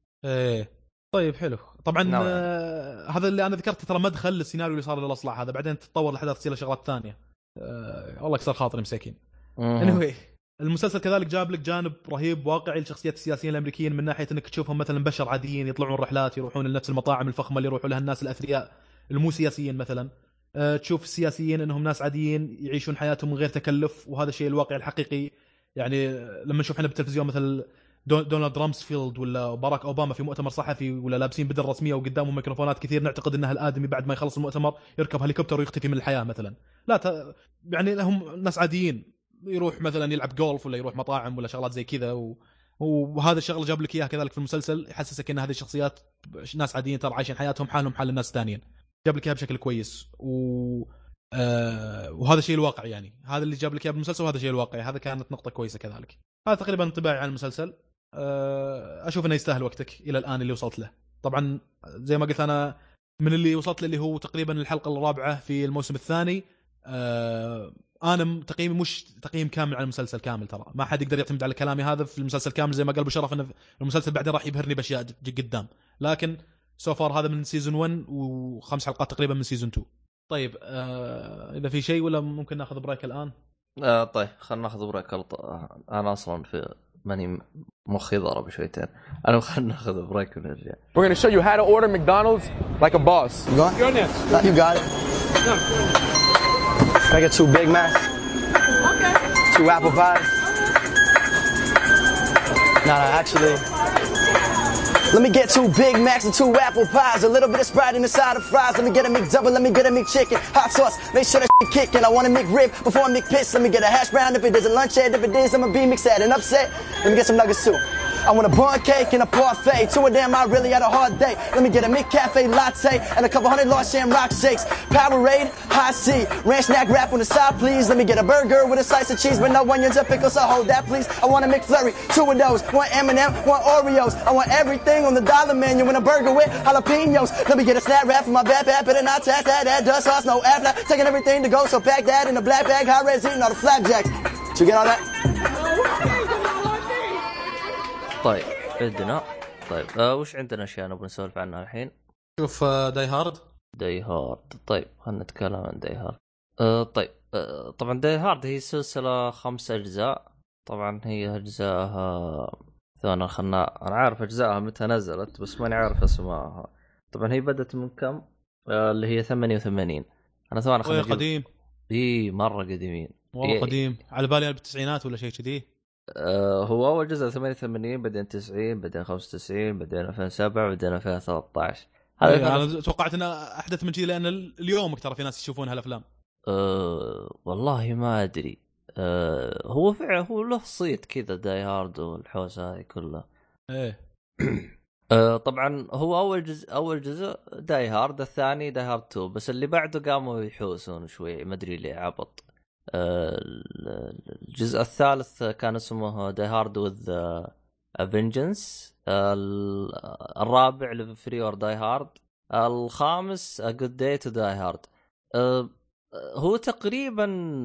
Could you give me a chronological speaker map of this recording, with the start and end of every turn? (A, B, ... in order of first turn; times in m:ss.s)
0:00.2-0:09.2 A
0:02.0-0:02.4 B
0:09.6-0:10.0 B
0:09.8-1:23.3 A
1:23.8-1:30.8 B
1:31.0-1:34.3 C
1:33.5-1:33.8 D
1:34.3-1:34.8 D
1:37.1-1:38.0 D
1:39.5-1:40.3 D
1:42.8-1:43.6 D
1:45.1-2:25.0 D
2:28.2-2:31.9 B
2:32.4-2:33.4 A
2:33.8-2:51.2 B
2:50.8-2:51.4 A
2:51.9-2:53.7 B
2:53.3-2:55.6 A
2:56.2-3:02.7 B
3:02.2-3:06.0 A
3:06.5-3:13.2 B
3:13.7-3:14.0 A
3:14.4-3:22.4 B
3:22.9-3:27.5 B
3:28.0-3:37.3 B